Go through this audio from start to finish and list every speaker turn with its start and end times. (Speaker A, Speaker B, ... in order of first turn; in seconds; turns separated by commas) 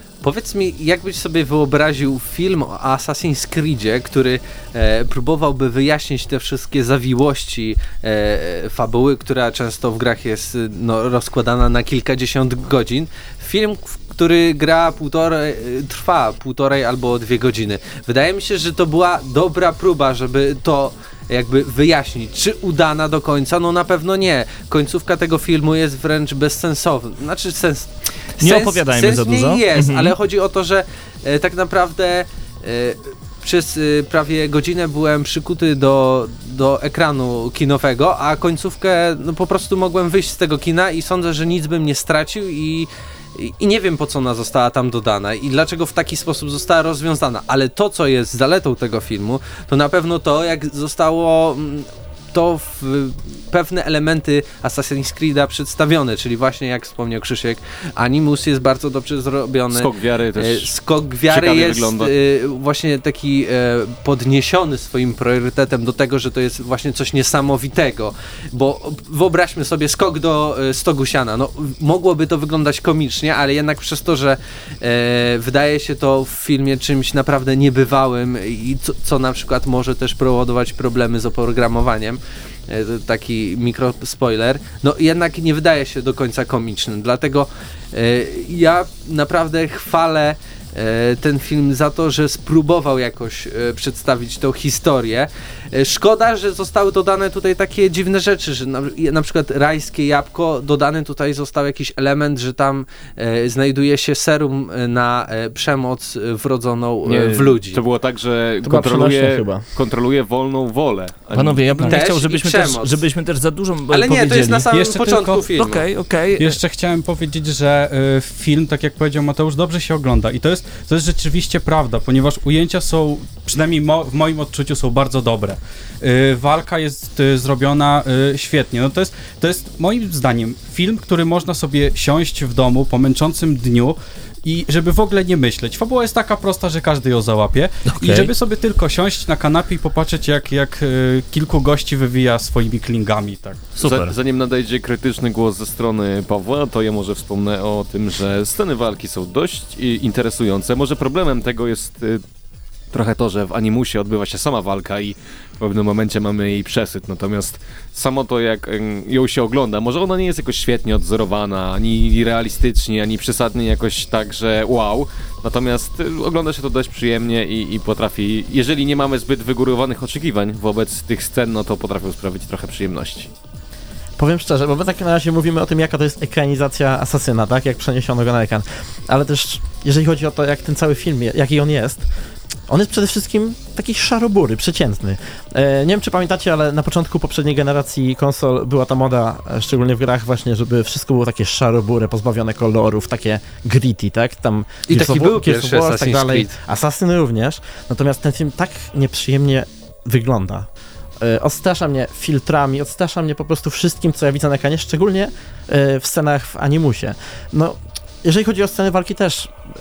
Speaker A: 0.2-107.8, Speaker B: 28.4-30.1, Speaker C: 59.7-60.7, Speaker C: 61.3-62.1, Speaker C: 107.0-112.0, Speaker D: 108.6-109.6, Speaker B: 111.3-114.7, Speaker A: 111.8-113.0, Speaker A: 113.9-115.8, Speaker E: 114.7-115.5, Speaker B: 115.5-116.6, Speaker E: 116.4-143.7, Speaker B: 137.9-138.3, Speaker B: 143.8-144.1, Speaker C: 143.8-152.2, Speaker C: 152.9-173.3, Speaker D: 174.2-182.1, Speaker D: 182.7-200.7, Speaker A: 194.9-196.5, Speaker D: 201.2-209.6